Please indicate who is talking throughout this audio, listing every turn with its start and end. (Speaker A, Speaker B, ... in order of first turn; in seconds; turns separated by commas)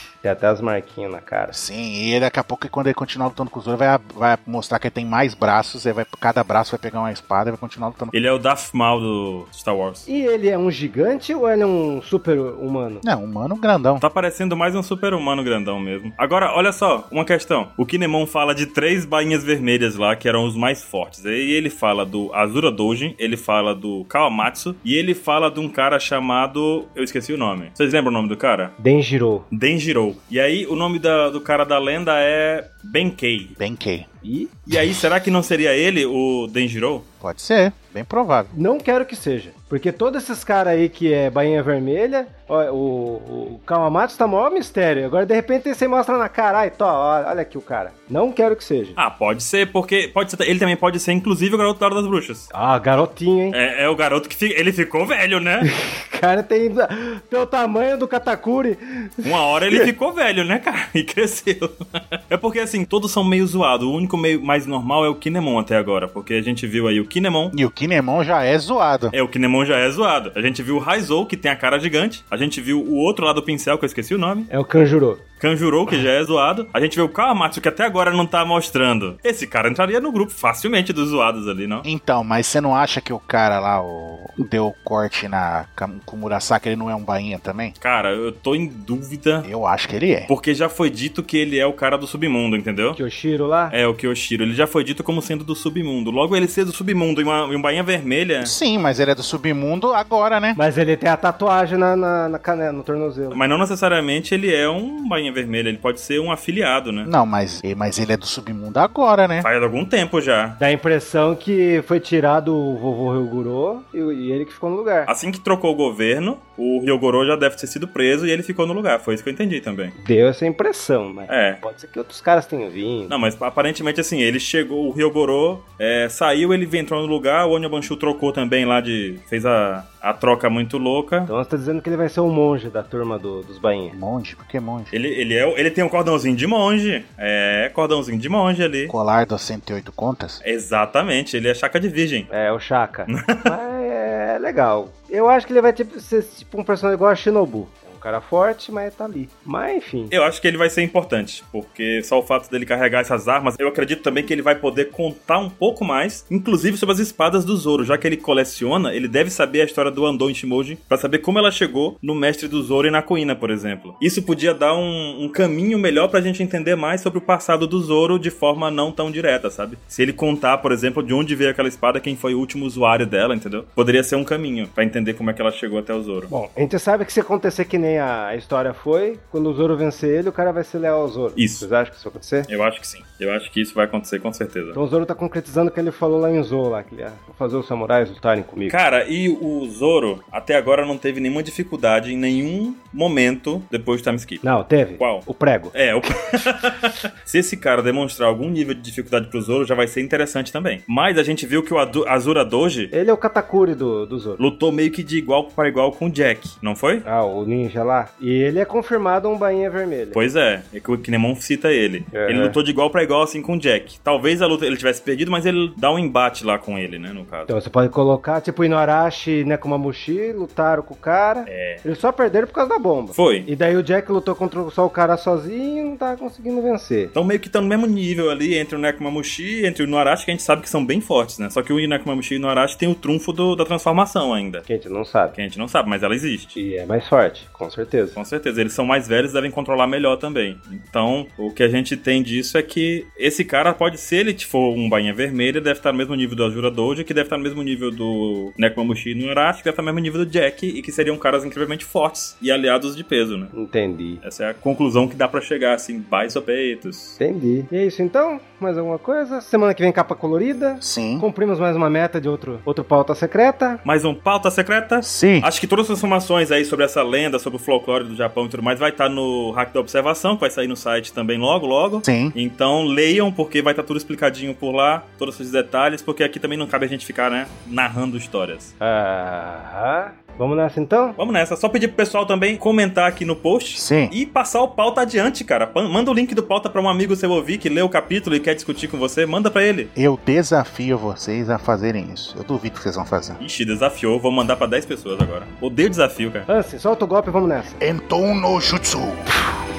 Speaker A: 0.2-1.6, Speaker B: 1.5-8.1, Speaker C: 8.1-10.1, Speaker A: 10.1-13.0, Speaker B: 13.0-14.0, Speaker C: 14.0-28.7, Speaker A: 28.8-29.5, Speaker C: 29.5-33.5, Speaker B: 33.5-34.1, Speaker A: 34.2-34.7, Speaker C: 34.7-37.1, Speaker B: 37.2-38.5, Speaker A: 38.5-49.0, Speaker C: 49.0-52.5, Speaker A: 52.5-53.6, Speaker C: 53.5-55.7, Speaker A: 55.6-59.9, Speaker C: 59.2-61.7, Speaker C: 62.3-67.5, Speaker B: 67.5-69.1, Speaker C: 69.1-74.5, Speaker A: 74.5-75.2, Speaker C: 75.4-81.9, Speaker B: 81.8-87.8, Speaker C: 87.8-89.5, Speaker B: 89.4-90.3, Speaker C: 90.3-93.0, Speaker A: 93.0-93.7, Speaker C: 93.7-98.5, Speaker B: 98.4-100.6, Speaker A: 100.5-103.4, Speaker C: 103.3-107.1, Speaker B: 107.0-109.5, Speaker C: 109.4-110.6, Speaker A: 110.6-115.1, Speaker C: 115.1-119.9, Speaker A: 120.0-123.1, Speaker C: 121.3-121.6, Speaker C: 123.1-131.3, Speaker A: 131.3-134.0, Speaker B: 133.9-134.9, Speaker C: 134.9-138.9, Speaker B: 138.9-140.4, Speaker C: 140.4-142.3, Speaker A: 142.3-150.1, Speaker C: 143.1-143.5, Speaker C: 150.1-176.3, Speaker A: 176.3-182.5, Speaker C: 181.4-181.7, Speaker C: 182.5-184.8, Speaker A: 184.7-188.8, Speaker C: 188.7-194.4, Speaker A: 194.4-195.7, Speaker C: 195.0-202.9, Speaker A: 202.9-204.4, Speaker C: 204.4-207.0, Speaker A: 207.0-210.2, Speaker C: 210.1-217.5, Speaker A: 212.1-212.6, Speaker A: 217.5-227.1, Speaker C: 221.4-221.8, Speaker C: 223.1-223.5, Speaker C: 227.1-234.7, Speaker A: 234.7-235.4, Speaker C: 235.3-236.6, Speaker A: 236.5-238.2, Speaker C: 238.2-253.5, Speaker A: 253.5-254.2, Speaker C: 254.2-257.2, Speaker A: 257.2-263.8, Speaker B: 260.8-261.2, Speaker C: 263.9-278.7, Speaker B: 265.0-265.5, Speaker B: 272.0-272.4, Speaker A: 278.8-281.2, Speaker C: 281.2-289.9, Speaker B: 283.8-284.1, Speaker B: 289.9-293.4, Speaker C: 293.4-296.5, Speaker A: 296.5-297.8, Speaker B: 297.8-299.3